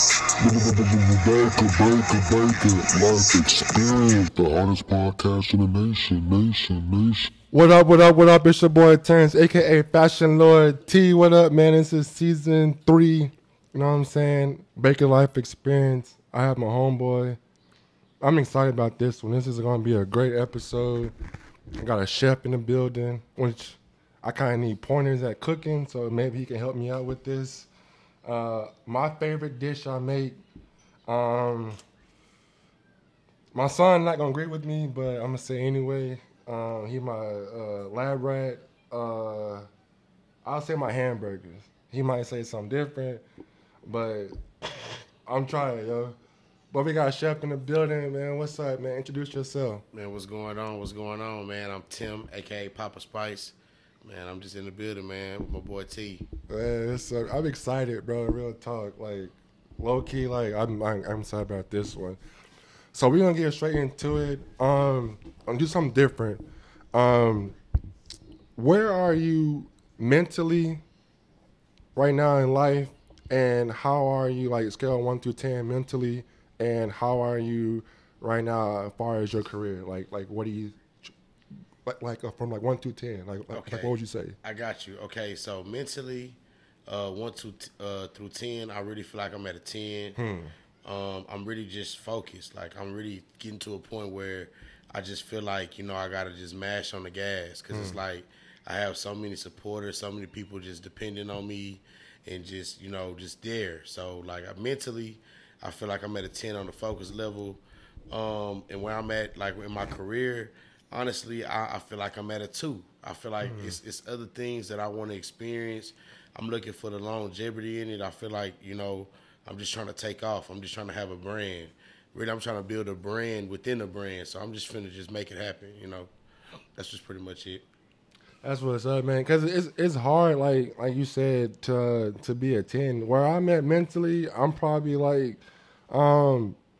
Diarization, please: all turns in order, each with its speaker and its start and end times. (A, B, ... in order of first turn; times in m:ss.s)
0:00.4-0:07.3 A
0:07.5-0:17.4 B
0:18.2-0:21.1 B
0:21.8-0:27.7 B
0:28.2-0:30.4 B
0:31.1-0:31.8 B
0:33.5-0:39.7 B
0:40.4-0:43.2 B
0:43.8-0:46.2 B
0:46.7-0:49.8 B
0:49.9-0:56.2 C
0:56.5-1:02.2 B
1:02.9-1:07.6 B
1:08.6-1:10.8 B
1:11.9-1:21.1 B
1:21.8-1:24.4 B
1:23.5-1:30.2 C
1:30.2-1:30.5 B
1:30.8-2:06.1 C
1:37.7-1:38.0 B
1:53.4-1:53.8 B
2:06.8-2:07.6 C
2:08.4-2:16.6 B